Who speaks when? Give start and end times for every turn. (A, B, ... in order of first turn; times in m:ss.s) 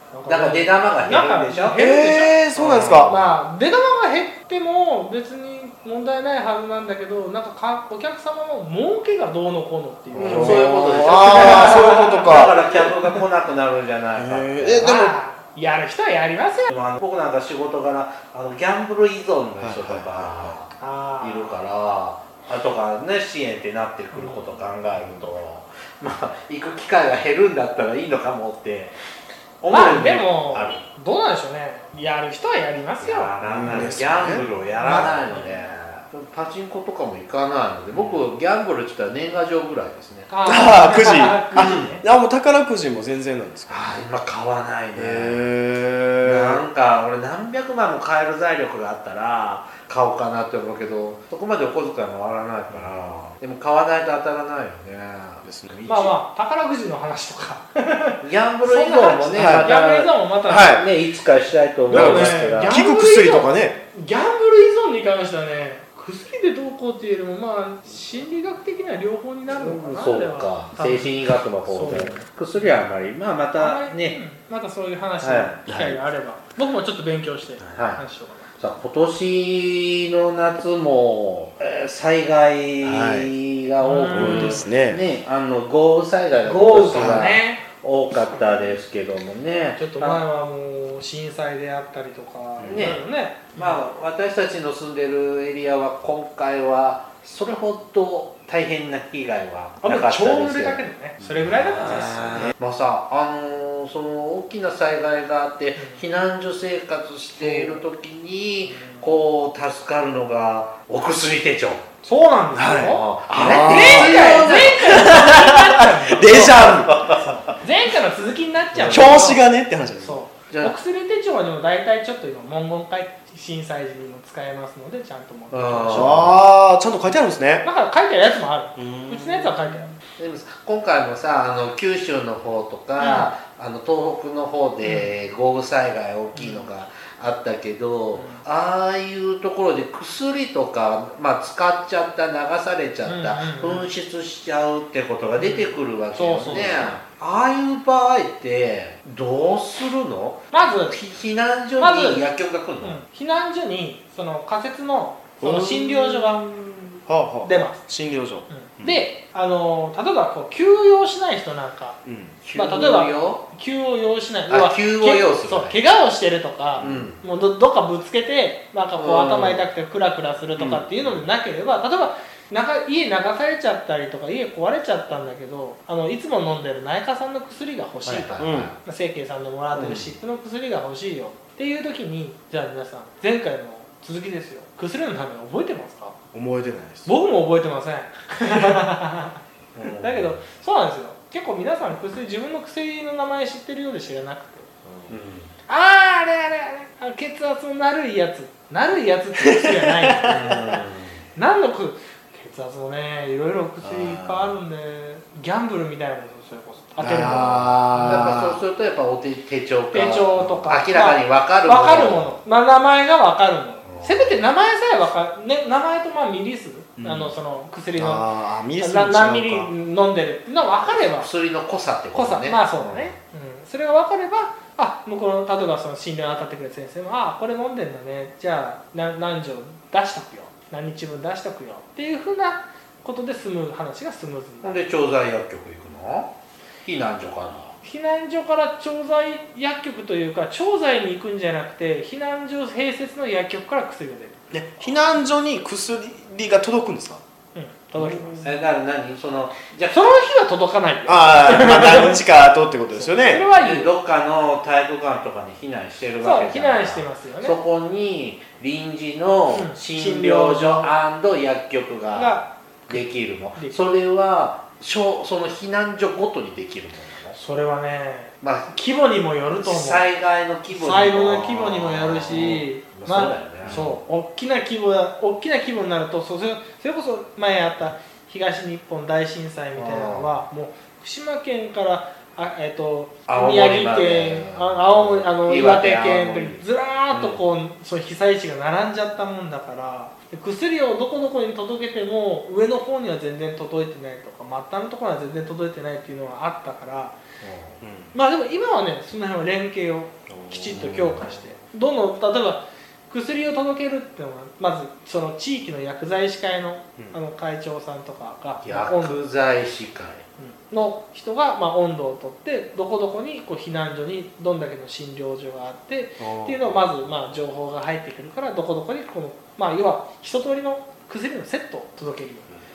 0:00.1-0:02.4 A
0:00.3-0:01.8 B
0:01.7-0:03.1 C
0:02.5-0:03.3 B
0:03.0-0:12.5 A
0:10.1-0:12.7 C
0:10.1-0:15.0 B
0:14.2-0:15.1 C
0:14.8-0:16.7 A
0:16.7-0:28.9 B
0:19.6-0:20.6 C
0:20.8-0:21.6 A
0:24.1-0:24.7 A
0:29.6-0:30.8 B
0:29.7-0:34.0 A
0:33.0-0:40.4 B
0:33.5-0:35.1 C
0:34.8-0:35.6 A
0:37.9-0:38.2 C
0:40.3-0:42.0 A
0:40.4-0:43.8 C
0:41.6-0:42.0 B
0:43.7-0:45.5 B
0:44.9-0:46.6 C
0:46.2-0:56.1 B
0:55.4-0:55.7 C
0:55.9-1:00.8 A
0:58.2-1:00.1 B
0:59.3-0:59.7 C
1:00.5-1:00.9 C
1:00.7-1:02.8 B
1:01.9-1:12.9 A
1:01.9-1:03.8 C
1:09.5-1:14.2 B
1:13.6-1:18.5 A
1:15.2-1:15.6 B
1:15.7-1:16.0 C
1:17.7-1:18.0 B
1:18.6-1:30.2 B
1:22.8-1:23.3 C
1:23.8-1:24.6 A
1:24.1-1:25.0 C
1:26.4-1:27.6 A
1:26.8-1:27.3 C
1:29.8-1:33.9 A
1:32.6-1:33.0 C
1:32.7-1:33.0 B
1:33.5-1:40.8 B
1:39.8-1:42.5 A
1:41.4-1:51.8 B
1:41.8-1:42.5 C
1:45.8-1:46.0 A
1:47.4-1:47.8 C
1:48.7-1:49.2 A
1:52.0-1:56.8 A
1:52.5-1:57.1 C
1:52.8-1:55.0 B
1:56.2-1:57.4 B
1:57.5-1:59.4 A
1:58.7-1:59.3 B
1:58.9-2:00.2 C
2:00.0-2:06.2 A
2:00.5-2:00.8 B
2:05.5-2:06.4 B
2:05.9-2:07.6 C
2:07.6-2:10.0 A
2:08.8-2:09.9 C
2:10.2-2:33.0 B
2:13.0-2:13.3 A
2:14.8-2:15.1 A
2:16.3-2:16.7 A
2:18.1-2:18.4 A
2:23.0-2:23.9 A
2:25.4-2:27.0 A
2:26.5-2:26.8 C
2:30.5-2:31.0 A
2:31.8-2:32.3 A
2:32.8-2:37.8 A
2:35.4-2:39.0 C
2:38.5-2:42.0 A
2:42.0-2:42.4 C
2:42.4-2:43.4 B
2:42.5-3:06.2 A
2:44.5-2:45.8 B
2:46.8-2:47.1 C
2:46.8-2:47.2 B
2:49.0-2:49.6 B
2:50.6-2:50.9 C
2:58.0-2:58.8 B
2:58.4-2:58.7 C
2:59.7-3:00.1 B
3:06.3-3:07.1 C
3:07.0-3:09.4 A
3:09.7-3:10.4 B
3:10.0-3:14.7 A
3:14.8-3:15.1 C
3:15.1-3:15.5 B
3:15.7-3:20.8 A
3:19.4-3:20.2 C
3:20.3-3:21.2 B
3:21.3-3:28.0 A
3:23.8-3:24.6 C
3:27.0-3:28.6 C
3:27.0-3:32.3 B
3:29.9-3:38.2 A
3:33.8-3:34.4 B
3:37.0-3:37.3 C
3:38.0-3:39.7 C
3:38.8-3:41.3 A
3:40.8-3:43.1 B
3:42.1-3:54.8 A
3:54.6-3:56.3 B
3:56.8-3:57.7 B
3:57.8-4:04.4 A
4:04.5-4:07.2 C
4:07.5-4:08.5 A
4:08.0-4:08.5 C
4:08.4-4:10.1 B
4:09.9-4:12.2 A
4:11.1-4:13.4 C
4:12.9-4:13.9 A
4:13.6-4:27.4 B
4:16.2-4:17.6 A
4:19.5-4:20.9 A
4:22.1-4:23.8 A
4:27.3-4:30.1 A
4:28.4-4:28.7 B
4:29.6-4:34.0 B
4:30.7-4:57.2 A
4:33.6-4:33.9 C
4:39.8-4:40.4 B
4:43.3-4:47.4 B
4:57.4-4:57.8 B
4:57.8-4:58.1 C
4:58.1-5:09.2 A
5:00.3-5:01.5 C
5:00.7-5:01.2 B
5:08.6-5:10.2 B
5:10.4-5:22.5 A
5:16.2-5:16.6 C